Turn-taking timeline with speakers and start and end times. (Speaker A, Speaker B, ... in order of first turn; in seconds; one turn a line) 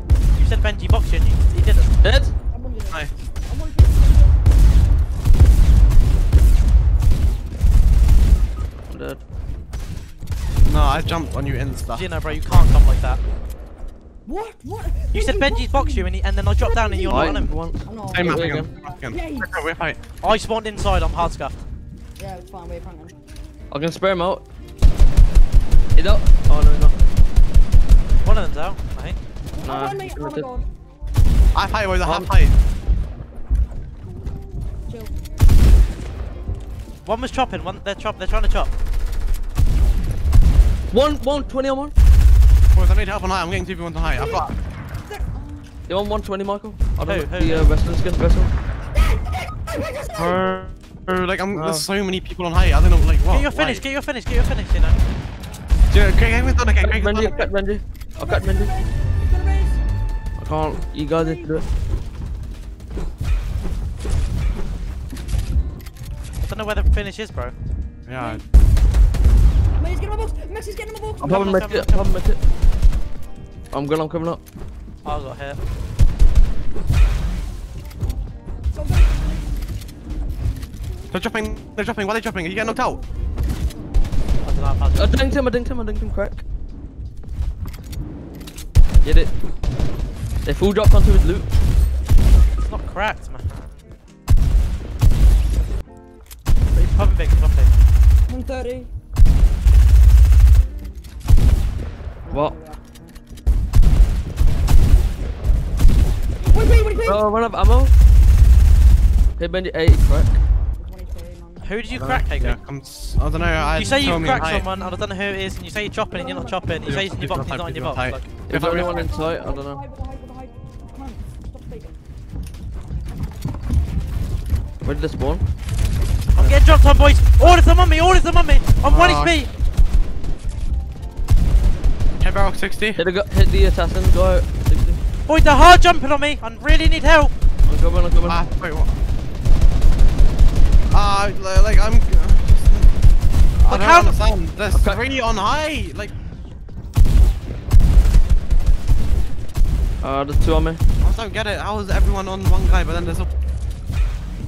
Speaker A: 0.3-1.9
Speaker B: 2.0-2.3
Speaker C: 2.5-4.4
Speaker B: 8.9-9.2
Speaker D: 10.6-12.7
Speaker A: 11.9-13.2
Speaker C: 14.2-19.7
Speaker A: 15.1-17.5
Speaker B: 17.1-18.7
Speaker D: 18.1-20.0
Speaker A: 20.2-21.6
Speaker C: 22.2-23.1
Speaker B: 23.7-24.4
Speaker B: 25.9-26.9
Speaker A: 28.2-29.2
Speaker C: 29.5-30.6
Speaker B: 29.6-30.5
Speaker D: 31.5-32.5
Speaker B: 32.0-32.3
Speaker C: 34.9-35.1
Speaker A: 37.0-38.7
Speaker B: 40.9-41.9
Speaker D: 42.7-44.5
Speaker C: 44.1-44.5
Speaker C: 45.0-45.6
Speaker B: 45.9-48.5
Speaker A: 47.0-47.7
Speaker C: 48.9-50.4
Speaker D: 50.1-53.8
Speaker B: 51.5-51.8
Speaker A: 53.3-55.0
Speaker D: 55.9-57.4
Speaker C: 56.2-57.5
Speaker B: 56.8-58.7
Speaker C: 58.2-59.8
Speaker B: 60.4-61.6
Speaker C: 61.1-61.6
Speaker A: 66.4-67.5
Speaker D: 68.1-68.4
Speaker C: 68.1-68.4
Speaker C: 69.8-71.6
Speaker B: 71.2-72.4
Speaker A: 71.2-72.0
Speaker B: 73.7-74.4
Speaker A: 75.0-75.6
Speaker C: 78.7-79.5
Speaker D: 81.1-83.0
Speaker C: 82.6-83.0
Speaker A: 84.4-85.1
Speaker B: 84.9-86.4
Speaker B: 89.0-89.3
Speaker B: 90.4-91.5
Speaker A: 92.6-93.8
Speaker A: 96.7-97.7
Speaker C: 98.3-98.9
Speaker C: 102.2-103.2
Speaker B: 102.3-102.5
Speaker C: 106.5-107.2
Speaker B: 107.0-107.9
Speaker B: 109.4-110.4
Speaker C: 110.8-111.8
Speaker A: 111.6-112.6
Speaker D: 111.9-114.7
Speaker A: 113.8-118.3
Speaker C: 116.1-116.8
Speaker D: 116.8-119.1
Speaker B: 118.5-119.8
Speaker C: 118.5-122.0
Speaker B: 124.8-125.4
Speaker D: 126.3-126.8
Speaker A: 126.3-129.5
Speaker D: 128.8-129.3
Speaker D: 132.2-133.0
Speaker B: 132.9-135.0
Speaker A: 135.3-137.3
Speaker B: 137.7-138.4
Speaker D: 138.2-138.9
Speaker D: 140.9-142.9
Speaker A: 143.6-144.1
Speaker D: 143.6-146.1
Speaker B: 144.7-145.0
Speaker B: 150.0-150.8
Speaker D: 151.0-153.3